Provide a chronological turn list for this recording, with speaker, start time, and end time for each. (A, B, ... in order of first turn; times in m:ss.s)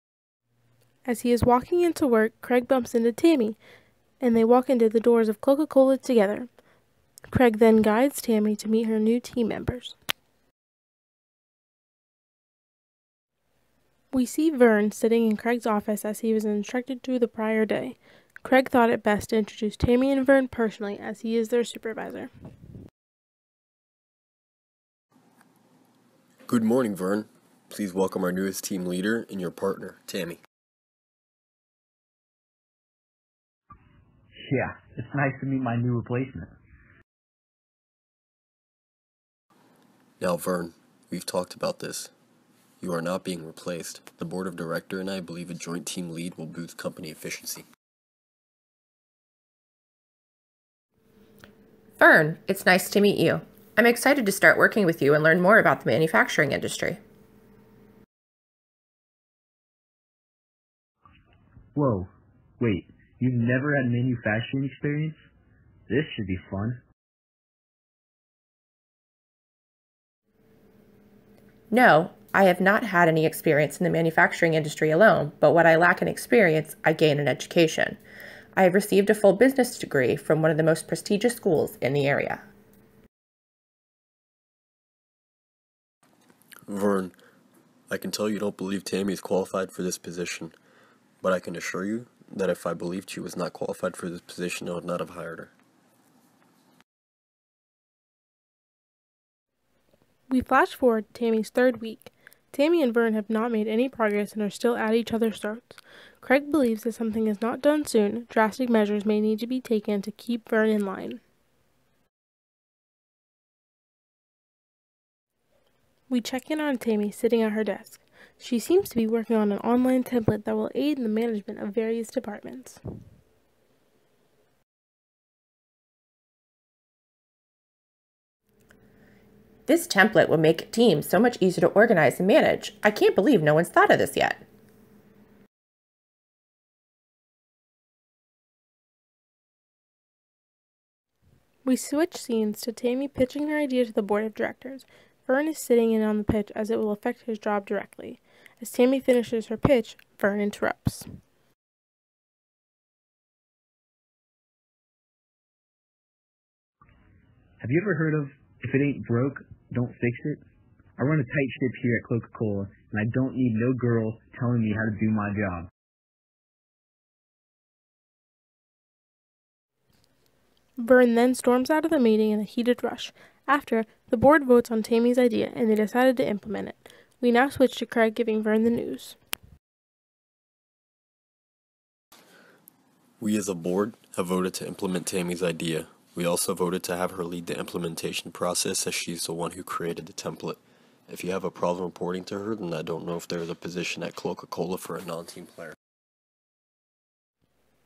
0:01.1-0:03.6 A
0:04.2-0:06.5 A
0:07.3-0:10.0 A
0:14.1-0:22.3 A
0:26.5-0:30.4 B
0:34.4-0:36.5 C
0:40.2-0:42.1 B
0:42.8-0:47.7 B
0:52.0-0:57.0 D
1:01.8-1:05.2 C
1:05.9-1:06.8 C
1:11.7-1:18.0 D
1:18.6-1:22.4 D
1:26.7-1:27.1 B
1:27.9-1:30.5 B
1:31.2-1:35.5 B
1:40.3-1:51.2 A
1:56.1-2:02.8 A
2:09.7-2:14.4 D
2:21.6-2:31.0 A
2:37.6-2:40.4 C
2:41.0-2:45.7 C
2:50.8-2:59.2 A
3:03.2-3:15.8 B